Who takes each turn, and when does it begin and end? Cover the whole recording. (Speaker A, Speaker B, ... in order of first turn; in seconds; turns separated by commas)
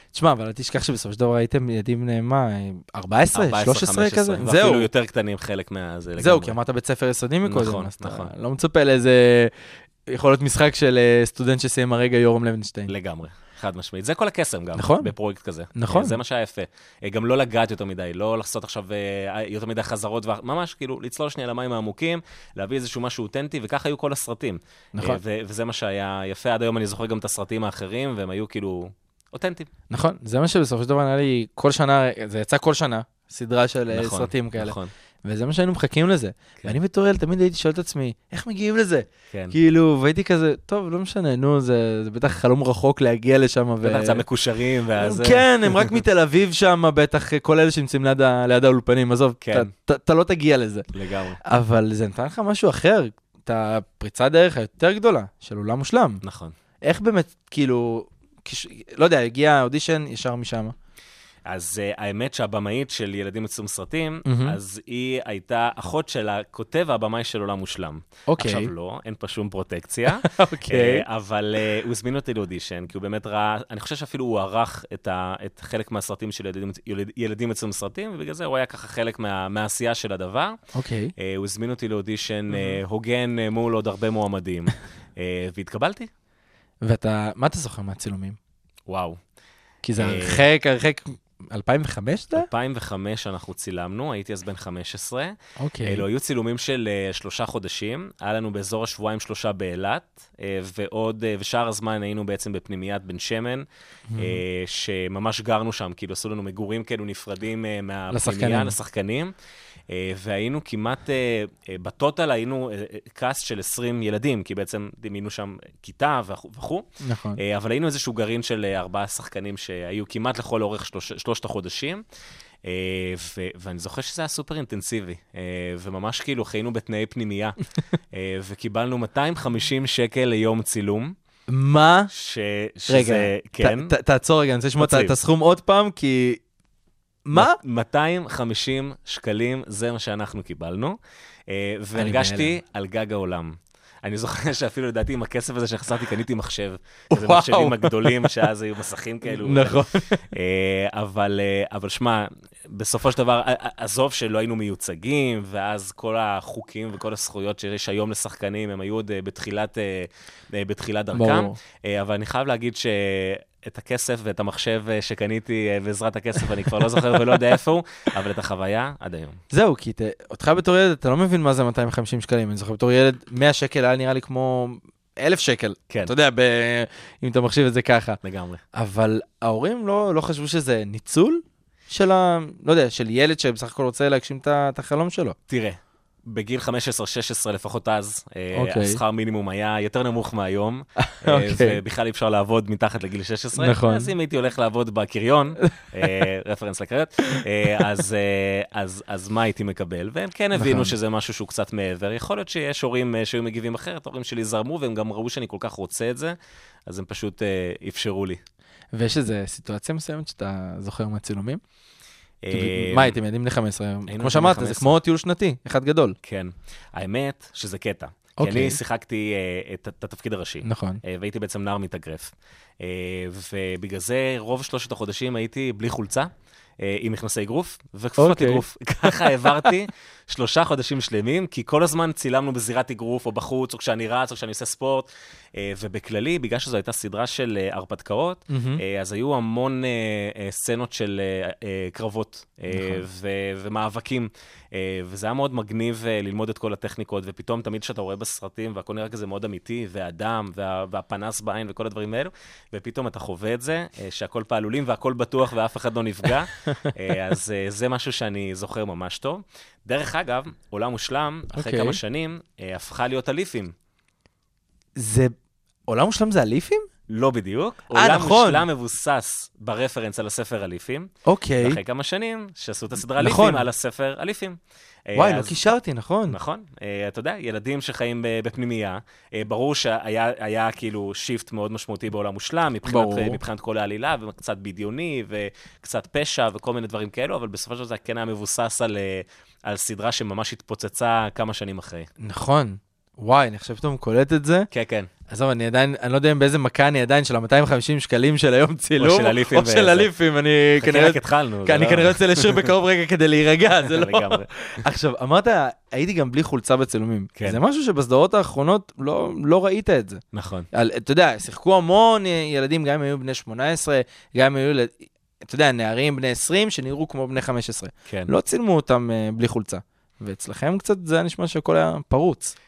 Speaker A: 0.1-4.9, Speaker B: 3.3-6.6, Speaker A: 6.2-9.5, Speaker B: 7.4-8.3, Speaker A: 10.1-12.9, Speaker B: 12.9-29.7, Speaker A: 14.8-15.1, Speaker A: 15.7-16.2, Speaker A: 29.9-44.2, Speaker B: 33.9-34.9, Speaker B: 43.8-45.9, Speaker A: 45.0-50.9, Speaker B: 49.4-49.7, Speaker B: 50.9-51.4, Speaker A: 51.5-56.2, Speaker B: 56.2-56.5, Speaker A: 56.8-60.8, Speaker B: 61.5-80.6, Speaker A: 64.2-64.6, Speaker A: 68.3-68.7, Speaker A: 70.1-71.0, Speaker A: 80.7-81.1, Speaker B: 81.2-86.1, Speaker A: 82.5-82.8, Speaker A: 86.8-88.4, Speaker B: 88.9-89.2, Speaker A: 89.8-92.5, Speaker B: 90.0-90.4, Speaker B: 92.3-103.7, Speaker A: 95.6-96.0, Speaker A: 104.1-104.4, Speaker B: 104.2-109.3, Speaker A: 108.1-108.8, Speaker B: 109.9-122.0, Speaker A: 117.0-117.4, Speaker B: 122.7-127.6, Speaker B: 128.1-131.2, Speaker A: 131.5-132.1, Speaker B: 132.1-133.9, Speaker A: 132.9-136.4, Speaker B: 134.8-135.2, Speaker A: 137.3-137.6, Speaker B: 137.3-141.0, Speaker B: 141.5-169.4, Speaker A: 142.0-142.6, Speaker A: 147.1-148.3, Speaker A: 149.3-150.3, Speaker A: 161.1-161.6, Speaker A: 169.5-178.2, Speaker B: 178.2-178.6, Speaker A: 178.7-185.4, Speaker B: 185.5-206.4, Speaker A: 188.5-189.0, Speaker A: 191.0-191.8, Speaker A: 193.6-194.1, Speaker A: 200.6-200.9, Speaker B: 206.9-208.4, Speaker A: 208.9-211.6, Speaker B: 212.4-213.2, Speaker A: 212.5-216.2, Speaker B: 214.1-215.0, Speaker B: 216.2-226.3, Speaker A: 218.4-218.8, Speaker A: 220.6-221.0, Speaker B: 226.8-263.7, Speaker A: 228.2-229.6, Speaker A: 238.5-238.8, Speaker A: 242.7-243.0, Speaker A: 261.5-262.0, Speaker A: 265.0-265.3, Speaker A: 265.9-266.9, Speaker B: 267.1-275.6, Speaker A: 267.9-268.7, Speaker A: 271.3-271.8, Speaker A: 273.2-273.7, Speaker A: 275.1-276.4, Speaker B: 276.3-292.1, Speaker A: 282.9-283.4, Speaker A: 292.2-294.7, Speaker B: 294.7-295.1, Speaker A: 295.3-314.9, Speaker B: 299.0-300.1, Speaker B: 300.8-302.7, Speaker B: 303.8-304.5, Speaker B: 310.3-310.7, Speaker A: 315.4-322.6